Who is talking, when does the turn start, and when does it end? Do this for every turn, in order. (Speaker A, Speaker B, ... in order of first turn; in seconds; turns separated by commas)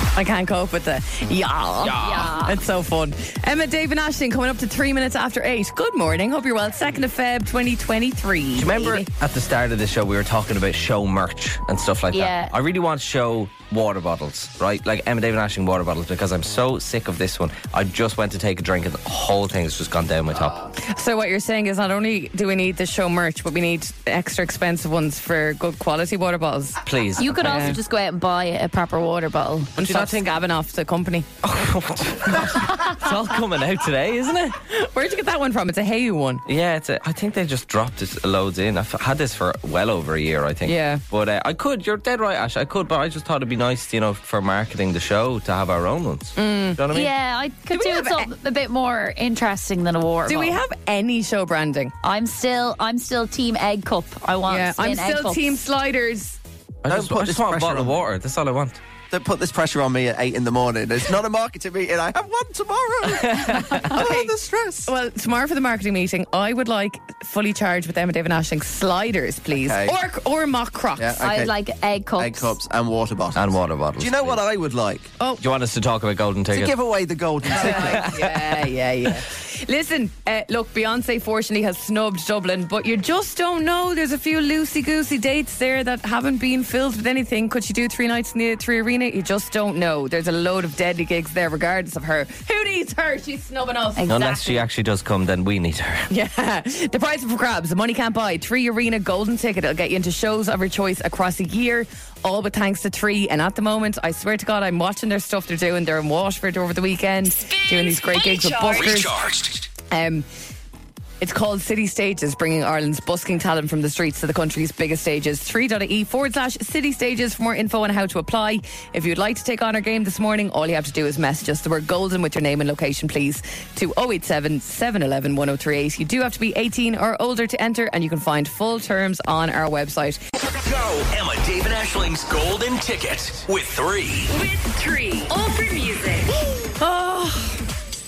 Speaker A: 0.1-9.1, Speaker B: 1.8-2.3, Speaker C: 2.0-2.6, Speaker D: 8.6-20.6, Speaker C: 12.1-12.5, Speaker A: 20.8-26.8, Speaker D: 26.8-27.8, Speaker C: 27.2-29.8, Speaker A: 27.4-27.8, Speaker D: 29.8-30.3, Speaker A: 29.8-31.3, Speaker D: 31.4-34.6, Speaker A: 34.7-36.4, Speaker D: 36.5-47.1, Speaker A: 40.6-41.0, Speaker A: 46.4-46.8, Speaker C: 46.9-50.6, Speaker A: 47.7-48.3, Speaker A: 50.3-51.9, Speaker C: 52.0-55.5, Speaker A: 54.5-56.4, Speaker D: 56.8-58.8, Speaker E: 56.9-57.9, Speaker E: 59.1-64.9, Speaker D: 63.3-63.8, Speaker A: 63.3-71.2, Speaker E: 69.5-69.9, Speaker E: 71.0-71.5, Speaker C: 71.2-72.5, Speaker E: 72.2-75.1, Speaker D: 73.3-74.4, Speaker D: 75.4-76.8, Speaker E: 76.5-78.2, Speaker A: 77.5-94.1, Speaker D: 77.5-78.4, Speaker C: 94.0-94.6, Speaker D: 94.1-96.1, Speaker A: 96.1-109.1, Speaker F: 107.3-109.0, Speaker B: 108.7-109.7, Speaker A: 109.9-110.2, Speaker A: 111.2-130.2, Speaker B: 130.5-134.3, Speaker F: 134.3-136.3, Speaker A: 136.5-137.7